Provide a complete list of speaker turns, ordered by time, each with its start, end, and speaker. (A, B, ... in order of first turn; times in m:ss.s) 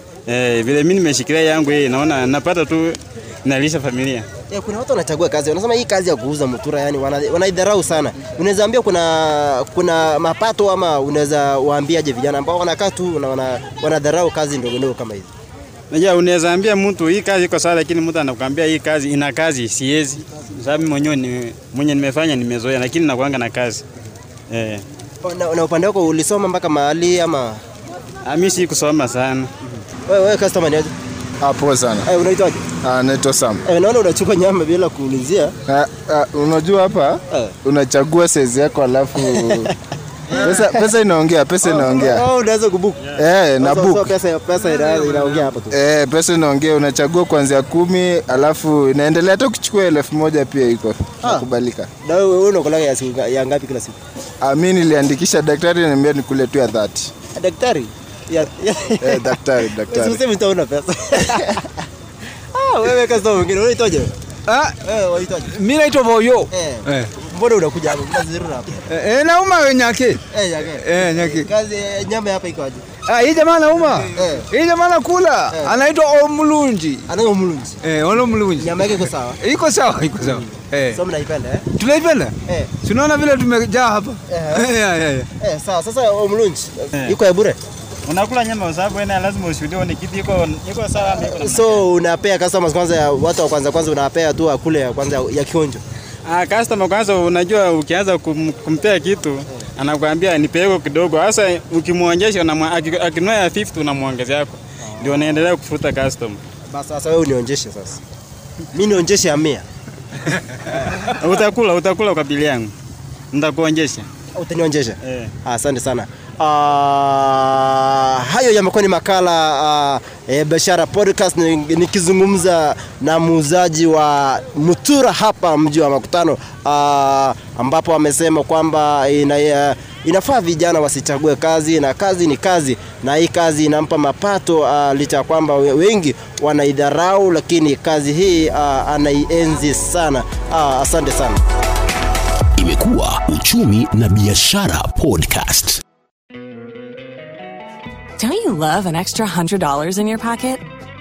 0:00.3-0:04.2 A
0:04.5-0:15.3 B
0:15.9-0:23.8 A
0:24.5-0:24.8 A
0:25.2-0:27.6 B
0:28.2-0:29.5 A
0:30.1-0:30.9 B
0:31.4-0:32.1 C
0:32.0-0:32.7 B
0:32.8-0:33.6 C
0:33.6-0:35.6 B
0:35.7-0:39.7 C
0:37.3-0:37.6 B
0:39.2-0:39.7 B
0:40.3-0:40.9 B
0:40.4-0:42.2 C
0:41.6-0:45.8 B
0:43.2-0:44.1 C
0:45.7-0:51.9 C
0:52.0-0:54.0 B
0:54.4-0:57.1 C
0:57.3-1:01.7 B
0:59.0-1:00.2 C
1:02.5-1:04.1 B
1:04.5-1:04.8 D
1:04.8-1:05.6 B
1:05.5-1:07.1 D
1:06.5-1:08.8 B
1:08.9-1:10.2 D
1:10.3-1:12.8 B
1:10.8-1:11.4 D
1:13.1-1:17.0 D
1:13.8-1:14.5 B
1:15.5-1:15.8 B
1:17.1-1:17.8 B
1:17.8-1:21.0 D
1:18.5-1:19.4 B
1:20.2-1:21.6 B
1:21.8-1:25.3 D
1:22.4-1:22.7 B
1:24.3-1:24.8 B
1:25.4-1:27.6 B
1:28.1-1:31.9 A
1:31.0-1:35.8 B
1:36.3-1:46.4 A
1:44.8-1:45.5 B
1:46.7-1:48.0 B
1:48.7-1:49.6 B
1:51.1-1:52.7 A
1:53.3-1:54.1 A
1:54.3-2:21.4 B
1:55.0-1:55.3 A
2:22.6-2:25.8 E
2:28.2-2:30.6 F